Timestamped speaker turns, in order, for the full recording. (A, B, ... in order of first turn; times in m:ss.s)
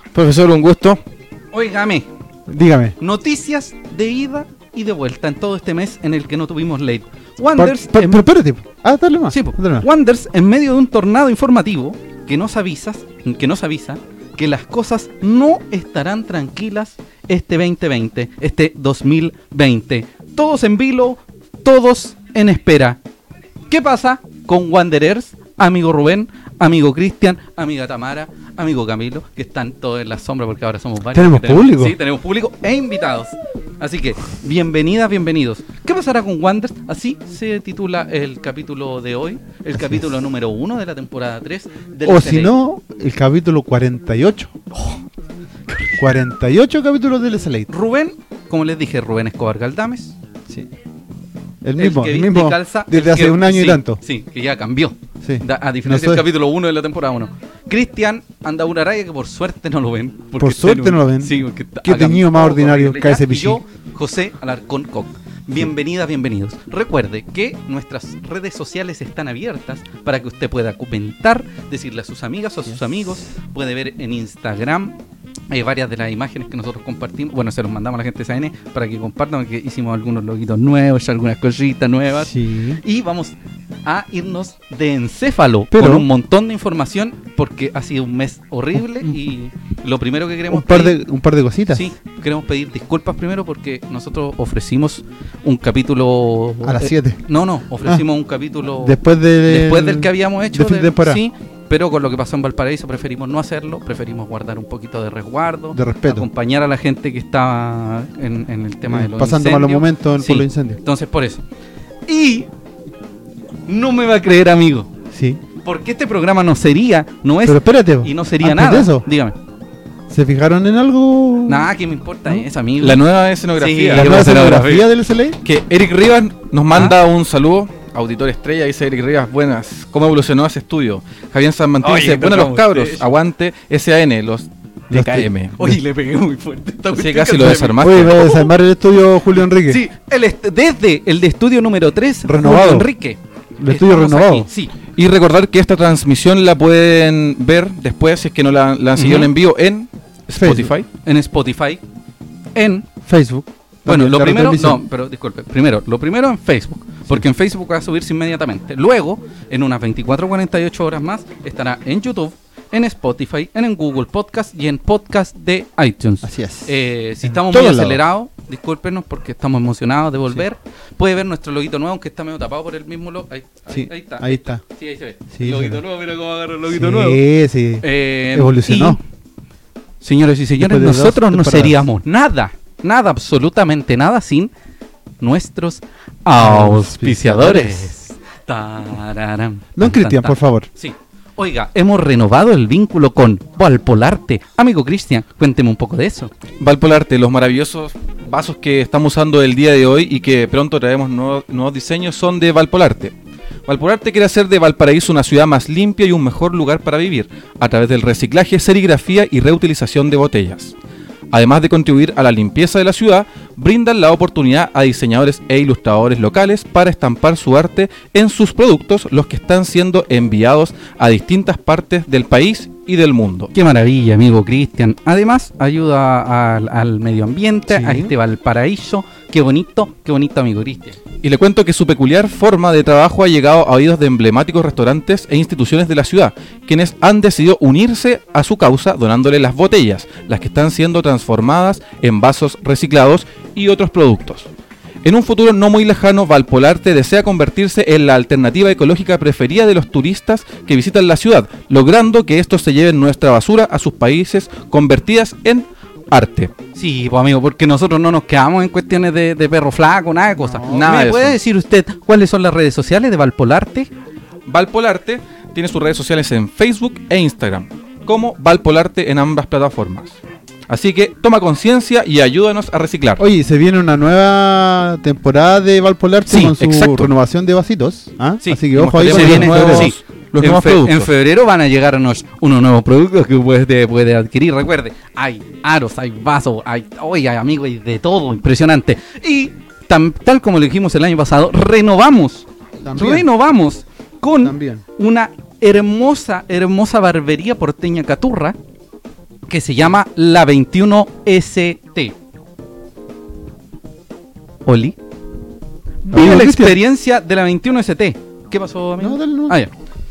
0:00.1-0:01.0 A
0:01.5-0:02.1 B
0:02.5-0:03.0 C
0:03.0-0:08.3 B
0:07.6-0:09.9 C
0:09.3-0:23.0 B
0:23.7-0:42.5 B
0:31.1-0:32.0 C
0:39.7-0:40.1 C
0:42.0-0:44.5 C
0:44.7-0:45.0 B
0:45.7-0:46.0 B
0:46.0-0:47.7 C
0:47.7-0:50.1 B
0:51.6-0:54.0 C
0:51.8-1:15.0 B
0:55.2-0:56.2 C
1:00.4-1:03.6 C
1:15.5-1:31.0 B
1:22.2-1:22.8 C
1:25.7-1:26.1 C
1:30.5-1:31.9 C
1:31.7-1:51.4 B
1:36.6-1:37.2 C
1:38.8-1:41.2 C
1:45.7-1:46.3 C
1:48.9-1:50.8 C
1:52.1-1:52.5 B
1:53.7-1:54.9 B
1:55.1-1:55.4 C
1:55.6-1:59.4 B
1:57.4-1:59.0 C
2:00.1-2:01.7 C
2:01.5-2:03.0 B
2:02.8-2:04.7 A
2:03.6-2:04.9 B
2:03.9-2:05.4 C
2:05.4-2:15.6 A
2:11.8-2:13.1 B
2:14.9-2:15.3 C
2:15.6-2:18.5 B
2:16.9-2:18.2 A
2:17.8-2:19.8 C
2:19.6-2:24.7 B
2:22.2-2:22.9 C
2:23.6-2:24.5 C
2:25.0-2:30.9 A
2:29.0-2:29.3 B
2:30.3-2:30.7 C
2:31.0-2:31.8 B
2:32.5-2:32.9 B
2:33.1-2:34.8 C
2:33.8-2:57.2 B
2:46.2-2:48.0 C
2:53.7-2:54.6 C
2:55.3-2:55.8 C
2:56.7-2:59.0 C
2:57.8-2:59.0 B
3:00.0-3:04.5 B
3:00.6-3:01.8 C
3:05.2-3:16.3 B
3:06.4-3:07.9 C
3:09.8-3:10.7 C
3:16.6-3:23.1 A
3:23.7-3:30.7 A
3:31.3-3:43.5 A
3:43.5-3:51.0 B
3:47.7-3:48.1 C
3:51.2-4:04.5 A
4:05.0-4:16.5 A
4:16.7-4:23.9 B
4:20.4-4:21.0 C
4:20.7-4:21.4 A
4:24.5-4:30.2 A
4:30.7-4:33.2 A
4:33.2-4:39.9 C
4:36.3-4:36.5 B
4:36.4-4:37.1 A
4:38.4-4:58.6 B
4:38.9-4:41.1 A
4:52.8-4:53.3 C
4:54.4-4:54.8 C
4:59.5-5:02.1 B
5:04.6-5:05.0 B
5:06.0-5:09.7 B
5:06.1-5:06.8 C
5:09.0-5:09.6 C